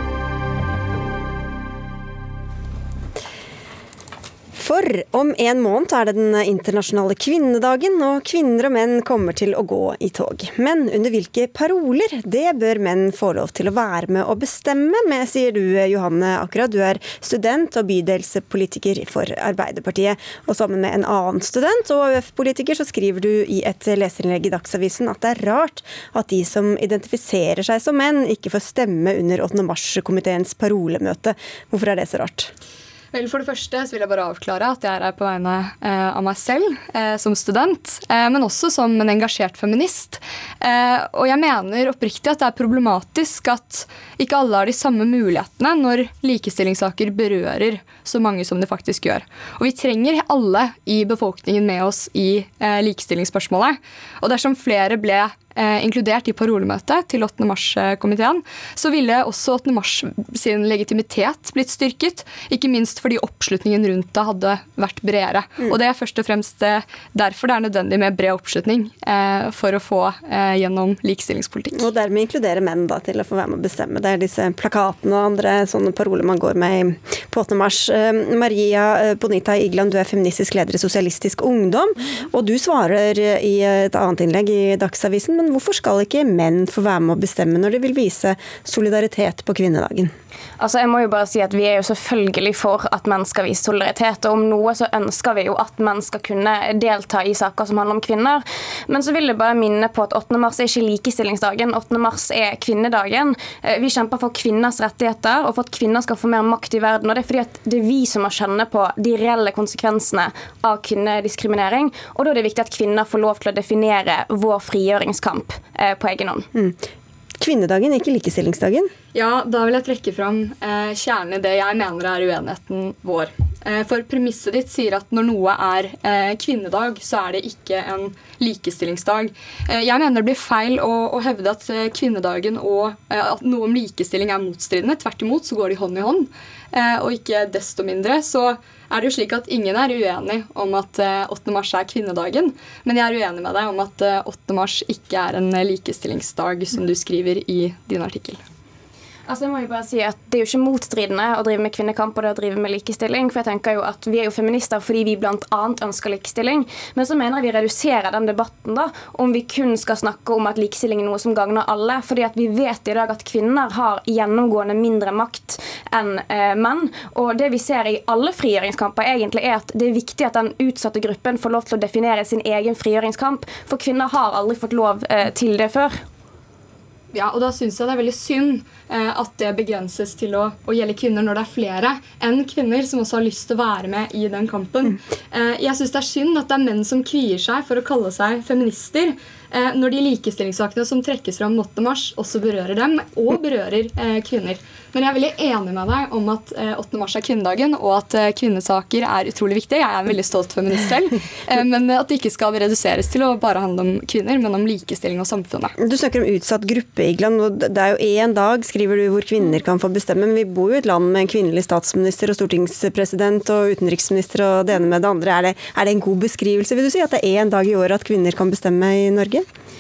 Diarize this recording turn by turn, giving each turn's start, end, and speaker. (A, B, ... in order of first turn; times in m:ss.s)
0:04.5-0:32.5 A
0:33.1-1:11.9 B
1:11.8-1:30.1 A
1:30.6-1:56.5 C
1:56.5-1:56.8 A
1:57.4-1:58.9 A
1:59.1-2:28.4 B
2:29.3-2:56.0 C
2:57.1-3:25.7 B
3:25.8-3:39.4 A